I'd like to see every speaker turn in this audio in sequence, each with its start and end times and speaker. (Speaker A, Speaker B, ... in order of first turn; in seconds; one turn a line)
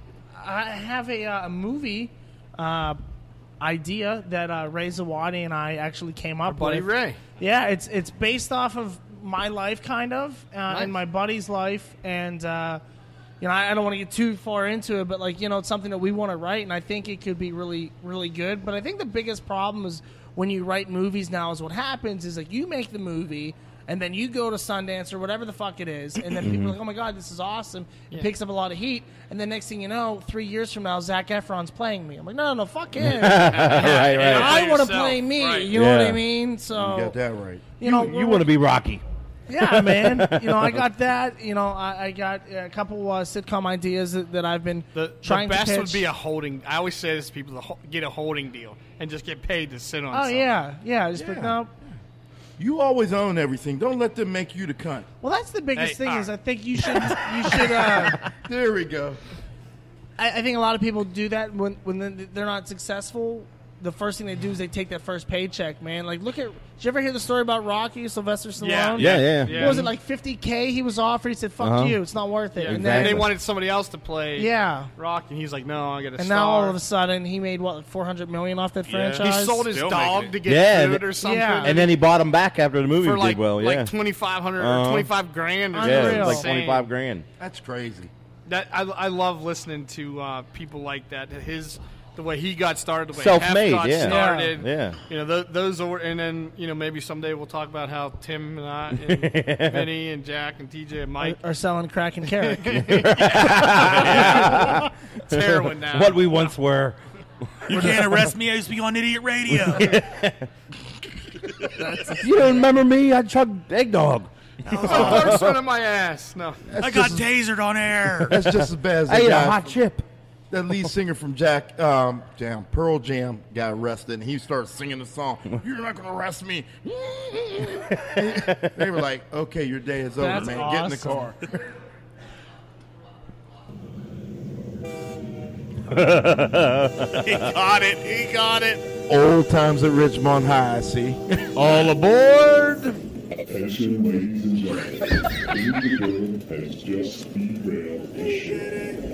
Speaker A: 0.4-3.0
Speaker A: 3.6-6.9
Speaker B: 6.5-7.2
Speaker A: 7.4-12.8
Speaker A: 13.4-37.2
Speaker C: 26.4-26.8
Speaker C: 33.0-34.5
Speaker B: 33.5-35.7
Speaker C: 35.7-36.2
Speaker D: 36.7-37.7
Speaker A: 37.8-38.5
Speaker C: 37.8-39.0
Speaker A: 39.5-46.0
Speaker C: 39.6-40.8
Speaker B: 45.0-50.5
Speaker A: 50.1-51.7
Speaker D: 51.2-51.6
Speaker D: 52.6-55.1
Speaker A: 55.2-58.2
Speaker B: 55.8-56.3
Speaker B: 57.7-58.0
Speaker D: 58.3-59.2
Speaker A: 60.2-73.3
Speaker B: 68.6-69.9
Speaker C: 69.0-69.9
Speaker C: 71.6-72.0
Speaker B: 72.6-76.8
Speaker C: 72.7-73.3
Speaker A: 74.4-74.9
Speaker A: 76.2-79.7
Speaker B: 79.0-81.9
Speaker E: 79.8-80.1
Speaker C: 80.4-81.1
Speaker A: 81.2-81.8
Speaker C: 81.6-83.9
Speaker B: 83.0-86.9
Speaker C: 84.6-85.1
Speaker C: 85.7-87.3
Speaker A: 85.7-86.5
Speaker D: 87.4-88.1
Speaker B: 88.5-101.4
Speaker C: 93.2-95.0
Speaker A: 94.0-94.5
Speaker C: 99.1-99.9
Speaker A: 101.2-102.7
Speaker B: 102.4-106.5
Speaker C: 102.8-107.0
Speaker E: 107.7-110.0
Speaker C: 107.7-108.0
Speaker C: 109.5-110.4
Speaker C: 112.0-115.6
Speaker B: 114.8-116.6
Speaker D: 116.7-117.3
Speaker E: 116.8-118.4
Speaker D: 118.3-119.8
Speaker C: 118.3-120.0
Speaker D: 120.5-131.7
Speaker C: 128.3-128.7
Speaker A: 130.2-131.3
Speaker C: 135.9-137.1
Speaker E: 137.2-138.8
Speaker D: 139.1-141.4
Speaker C: 141.6-142.7
Speaker E: 141.7-142.7
Speaker F: 143.3-148.7